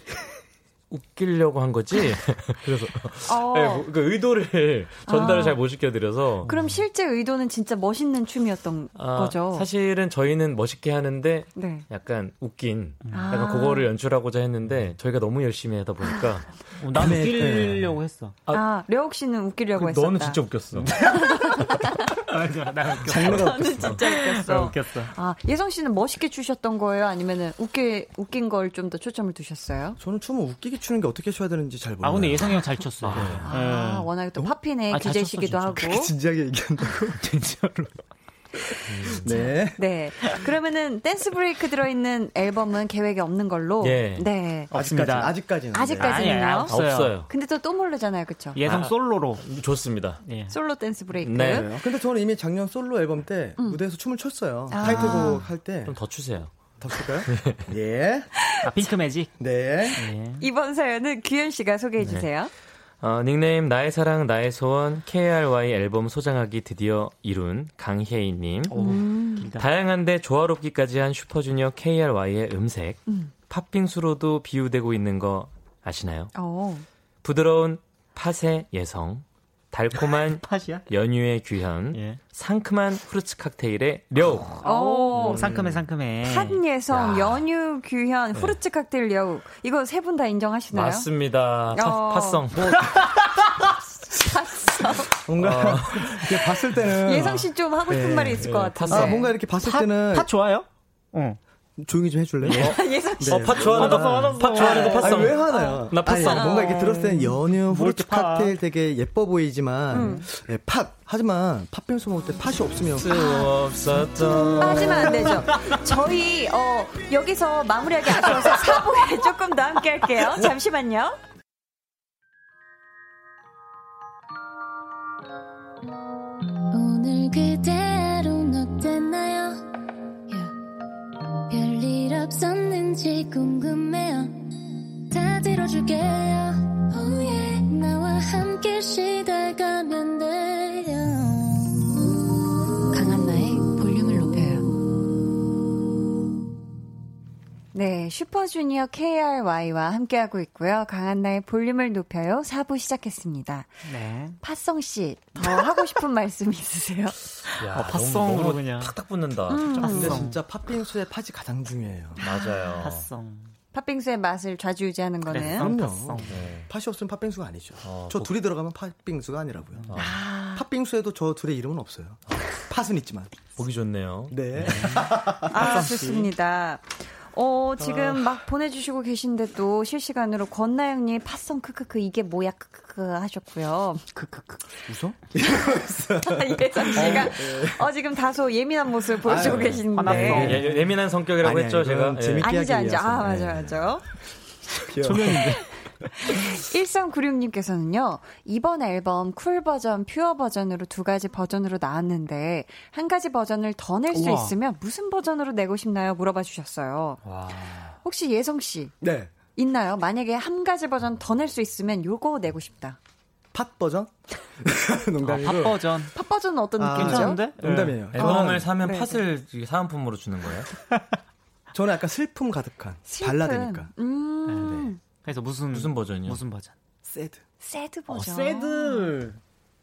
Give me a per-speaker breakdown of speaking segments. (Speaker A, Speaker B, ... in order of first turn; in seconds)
Speaker A: 0.9-6.5, 8.9-16.6, 19.8-21.0, 33.0-33.5, 38.9-39.5, 43.8-44.3, 46.6-47.3, 48.6-50.2, 51.2-51.7, 54.9-55.2, 55.8-56.6, 57.2-57.7, 62.0-62.3, 63.0-68.8, 69.5-76.3, 77.2-84.6, 85.1-85.8, 86.9-87.4, 90.7-92.9, 95.3-96.5, 98.3-99.3, 102.5-106.8, 112.9-115.4, 157.6-160.0, 162.2-163.1, 166.2-166.7, 167.8-168.3, 169.9-170.2, 173.6-174.9, 189.4-192.5, 207.2-208.0, 218.1-220.7, 225.7-226.4
Speaker B: 3.2-3.9, 5.0-5.6, 6.4-9.7, 11.5-11.8, 13.1-13.9, 18.5-20.4, 21.0-22.1, 23.2-30.0, 33.4-36.1, 39.7-44.7, 45.7-46.8, 47.3-48.6, 50.5-51.7, 54.7-55.5, 60.4-62.5, 68.7-69.5, 73.1-73.3, 76.3-76.8, 84.6-85.5, 86.2-91.1, 91.7-92.4, 93.9-95.1, 97.0-99.3, 102.5-103.8, 104.7-107.4, 109.9-110.3, 114.5-121.2, 142.9-144.7, 147.7-153.7, 154.4-157.2, 159.5-160.3, 163.7-165.7, 169.9-170.7, 175.4-184.1, 186.2-190.6, 192.4-194.0, 196.2-207.2, 208.0-208.9, 209.6-213.0, 216.1-217.4, 218.2-219.2, 223.1-225.0, 227.6-229.1
Speaker C: 6.4-6.8, 13.0-13.3, 16.8-18.4, 20.8-25.1, 32.0-34.1, 34.9-36.0, 36.9-38.0, 44.7-45.4, 45.9-47.1, 48.5-49.4, 50.2-50.5, 58.6-59.3, 60.0-60.4, 68.7-69.7, 79.9-80.9, 81.9-82.2, 84.2-86.6, 99.6-101.4, 102.4-102.8, 103.7-105.2, 107.5-108.5, 114.8-115.8, 153.8-154.4, 157.6-158.9, 159.8-160.4, 162.3-163.5, 165.3-166.4, 169.8-170.1, 174.6-176.3, 184.1-184.6, 186.9-187.3, 189.9-190.9, 195.0-195.7, 204.1-204.5, 215.2-216.1, 216.9-218.1, 224.5-226.7, 228.1-229.4
Speaker D: 16.9-18.0, 23.0-23.9, 30.0-33.4, 35.8-37.2, 39.2-39.8, 44.7-46.2, 51.4-56.0, 56.8-58.3, 59.4-60.0, 85.4-85.8, 95.2-100.3, 101.8-113.2, 159.8-162.2, 165.4-169.9, 170.5-173.4, 174.3-175.9, 184.8-187.9, 189.2-190.8, 191.4-194.0, 194.7-195.6, 209.0-209.3, 213.5-215.9, 216.8-218.7, 221.7-223.9, 227.0-227.4
Speaker E: 126.7-129.7, 130.3-130.5, 131.5-134.5, 135.1-141.8